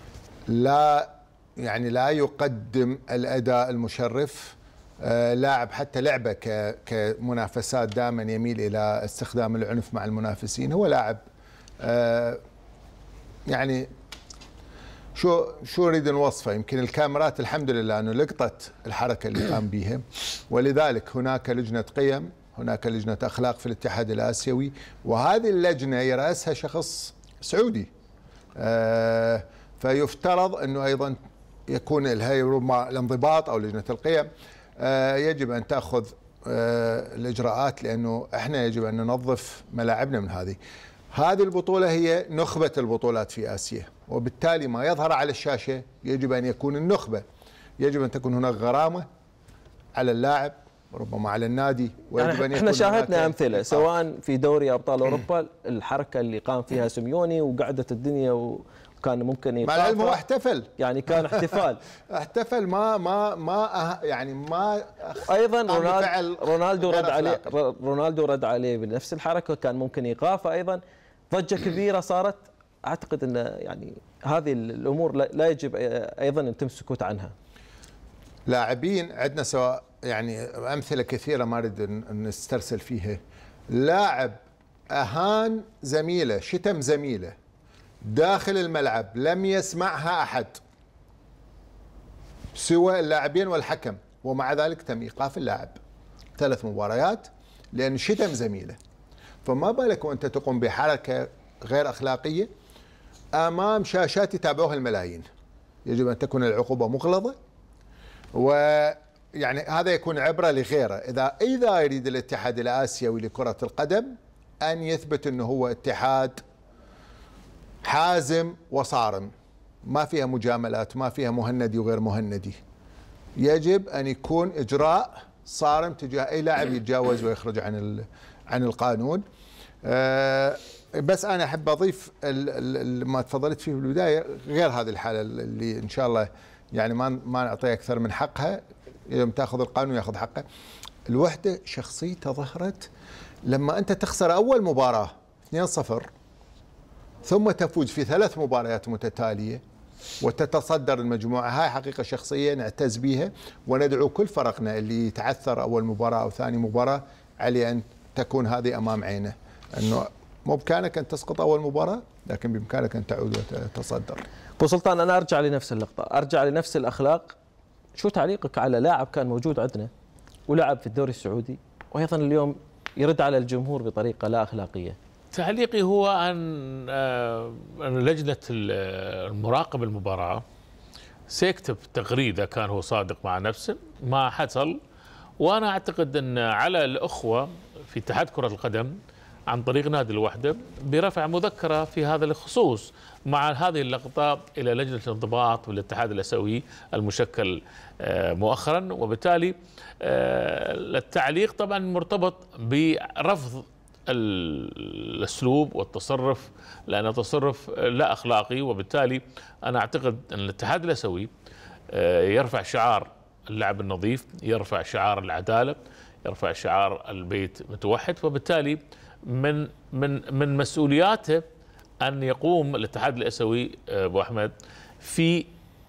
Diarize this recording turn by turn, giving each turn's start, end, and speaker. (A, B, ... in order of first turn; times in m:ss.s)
0:00.5-0:11.2 A
0:11.8-0:12.4 A
0:13.5-0:13.9 A
0:15.2-0:27.9 A
0:28.6-0:31.2 A
0:31.7-0:40.6 A
0:41.1-0:47.2 A
0:47.8-0:49.1 A
0:50.0-0:53.9 A
0:52.2-1:00.2 B
0:59.6-1:00.7 A
1:00.8-1:01.8 B
1:01.2-1:07.5 A
1:05.2-1:10.8 B
1:11.3-1:17.3 B
1:18.5-1:23.2 A
1:23.7-1:24.4 A
1:24.9-1:27.3 A
1:28.0-1:30.6 A
1:32.5-1:35.8 A
1:36.4-1:38.8 A
1:39.4-1:42.5 A
1:43.4-1:45.2 A
1:45.8-1:47.4 A
1:48.3-1:56.4 A
1:57.8-1:59.3 A
1:59.8-2:02.6 A
2:03.4-2:09.2 A
2:09.8-2:20.4 A
2:21.1-2:22.9 A
2:23.5-2:26.1 A
2:27.2-2:29.6 A
2:30.2-2:44.2 A
2:44.6-2:47.4 B
2:48.0-2:49.9 B
2:50.5-2:55.0 B
2:55.3-3:00.4 C
3:01.3-3:04.8 C
3:05.4-3:09.0 C
3:09.5-3:31.3 C
3:31.9-3:41.4 C
3:42.0-3:44.5 C
3:45.0-3:45.5 C